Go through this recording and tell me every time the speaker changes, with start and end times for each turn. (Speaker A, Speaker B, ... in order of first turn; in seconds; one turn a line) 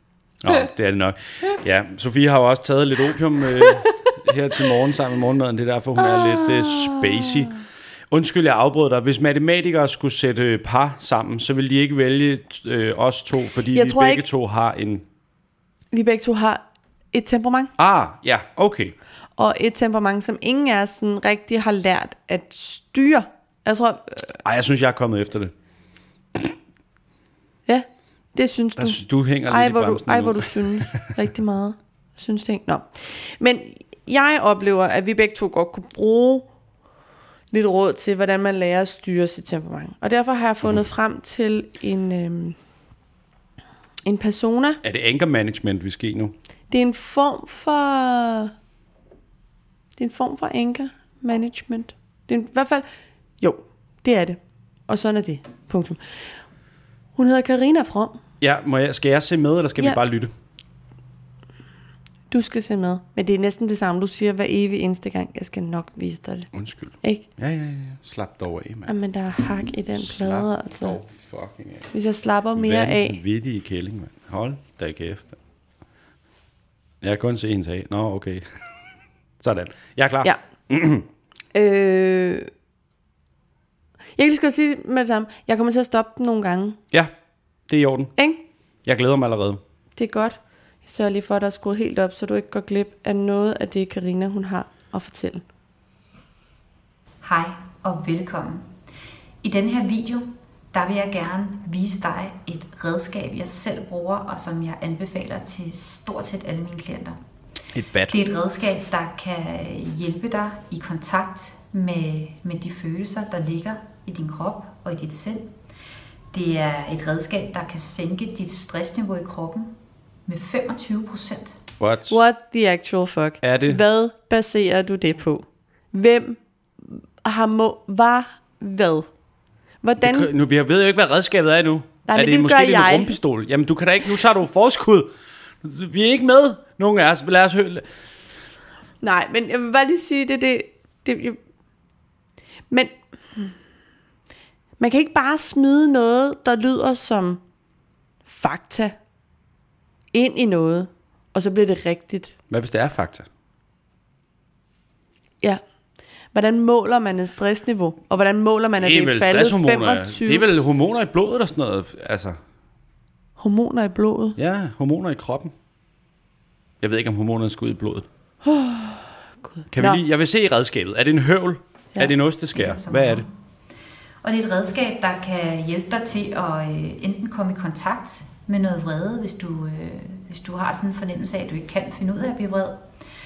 Speaker A: 0.4-15.1
Speaker B: 3.6-4.1
Speaker B: 6.0-7.5
Speaker B: 13.7-14.2
Speaker B: 15.9-17.7
Speaker A: 17.8-18.9
Speaker B: 19.4-24.4
Speaker A: 24.4-25.5
Speaker B: 27.7-36.5
Speaker A: 28.8-31.0
Speaker B: 37.5-42.6
Speaker B: 44.0-44.8
Speaker A: 44.8-46.3
Speaker B: 46.7-48.5
Speaker B: 50.0-52.9
Speaker B: 53.4-56.2
Speaker B: 57.2-58.2
Speaker A: 58.4-60.3
Speaker B: 62.3-66.5
Speaker A: 66.5-68.9
Speaker B: 68.9-71.0
Speaker A: 69.9-71.9
Speaker B: 71.9-73.2
Speaker A: 72.5-75.4
Speaker A: 77.0-78.5
Speaker A: 79.4-81.1
Speaker B: 81.5-82.5
Speaker B: 84.2-86.8
Speaker A: 87.7-88.1
Speaker B: 88.2-88.4
Speaker A: 88.8-89.6
Speaker B: 90.0-95.4
Speaker C: 97.2-98.7
Speaker C: 99.4-107.2
Speaker A: 107.7-108.2
Speaker C: 108.1-115.5
Speaker C: 116.3-119.7
Speaker C: 120.3-121.6
Speaker A: 121.8-122.2
Speaker B: 122.1-129.1
Speaker A: 123.4-123.8
Speaker B: 129.8-130.3
Speaker A: 130.0-135.1
Speaker B: 132.1-133.2
Speaker A: 135.6-137.8
Speaker B: 139.0-141.4
Speaker B: 142.7-143.5
Speaker B: 144.8-147.4
Speaker B: 148.2-148.9
Speaker B: 150.1-152.3
Speaker A: 152.5-153.3
Speaker B: 156.3-160.5
Speaker A: 158.8-162.4
Speaker B: 163.4-164.4
Speaker A: 164.4-165.5
Speaker A: 166.8-168.1
Speaker B: 168.4-170.0
Speaker A: 169.7-173.2
Speaker C: 172.6-173.3
Speaker C: 174.2-182.8